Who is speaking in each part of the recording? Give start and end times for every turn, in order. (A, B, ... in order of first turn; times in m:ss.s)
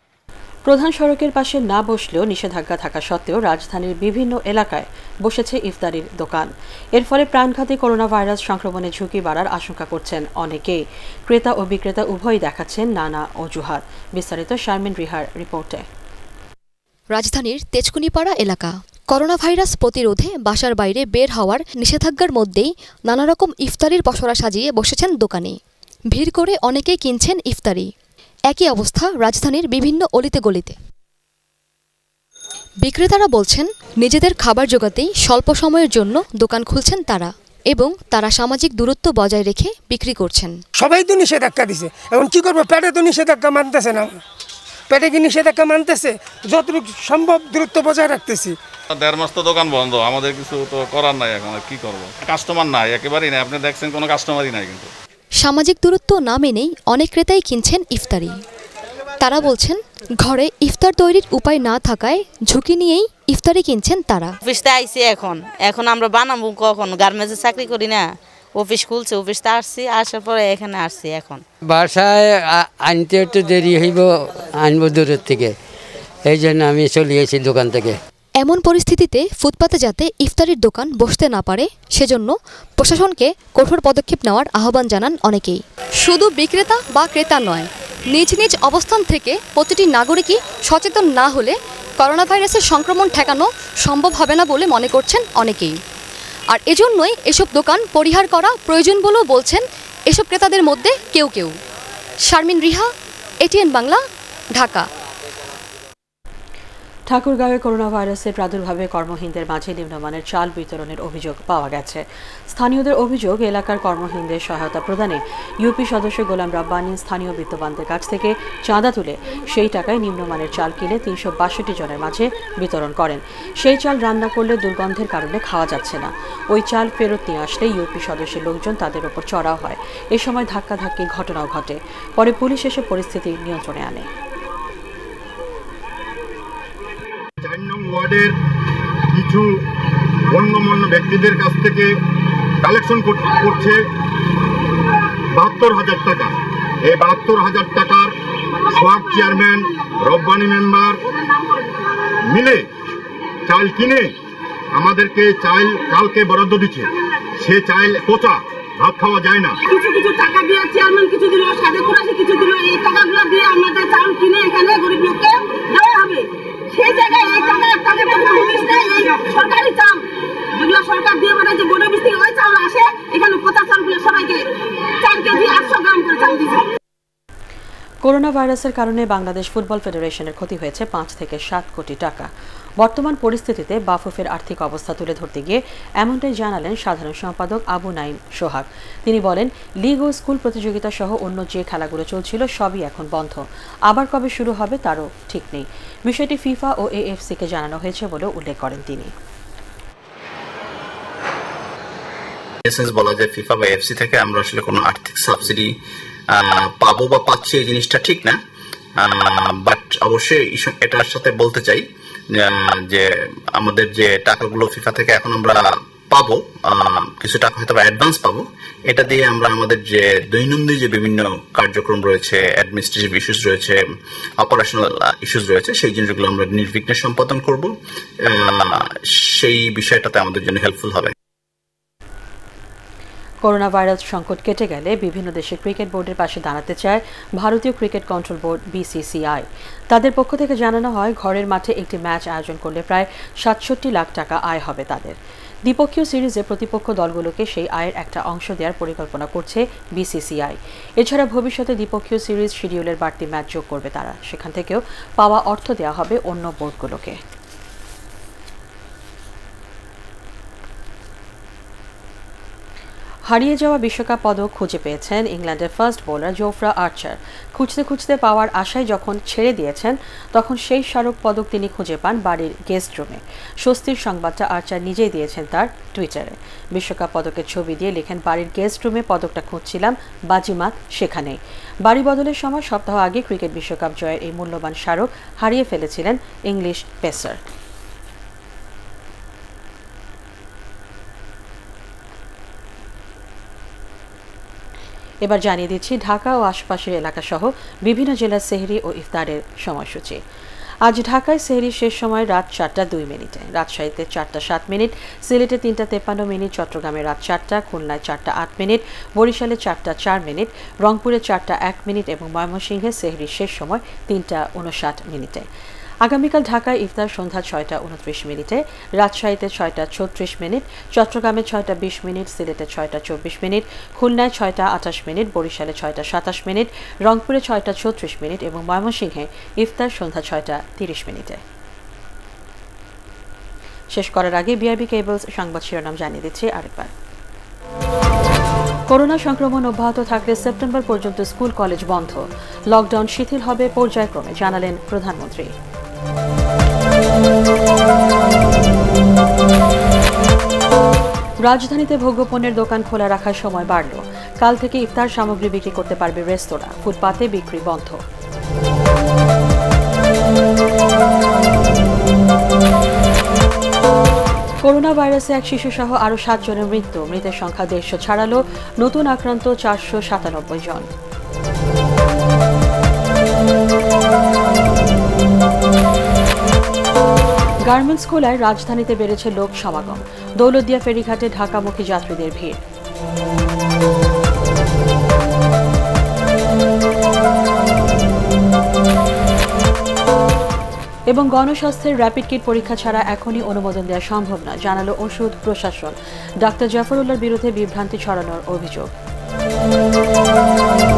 0:00.7-0:15.8 A
0:17.1-0:25.6 B
0:26.1-0:27.9 B
0:28.5-0:30.8 B
0:32.8-0:40.5 B
0:40.8-0:44.1 C
0:44.9-0:48.5 C
0:49.0-0:54.9 D
0:50.5-0:52.0 E
0:52.6-0:54.8 E
0:55.4-0:58.3 B
0:59.2-1:04.3 B
1:04.4-1:08.0 E
1:08.6-1:11.4 E
1:11.7-1:15.5 F
1:16.3-1:18.0 F
1:18.4-1:35.8 B
1:36.5-1:41.6 B
1:42.3-1:42.9 B
1:43.4-1:44.0 B
1:44.6-1:44.9 B
1:47.1-2:14.1 A
2:25.6-2:25.8 G
2:26.9-2:27.7 G
2:28.7-2:29.5 D
2:33.6-2:34.0 G
2:35.1-2:36.8 G
2:37.5-2:39.5 G
2:39.7-2:56.6 D
2:58.0-3:19.1 A
3:22.7-3:25.7 H
3:26.3-3:28.4 H
3:29.0-3:43.8 H
3:44.4-3:51.1 H
3:53.4-4:17.2 A
4:23.3-4:47.4 A
4:55.2-5:00.2 A
5:00.8-5:15.5 A
5:16.0-5:31.4 A
5:33.9-5:36.9 A
5:38.9-5:45.5 A
5:51.4-5:58.0 A
6:04.6-6:10.9 A
6:17.7-6:22.6 A
6:31.1-6:38.9 A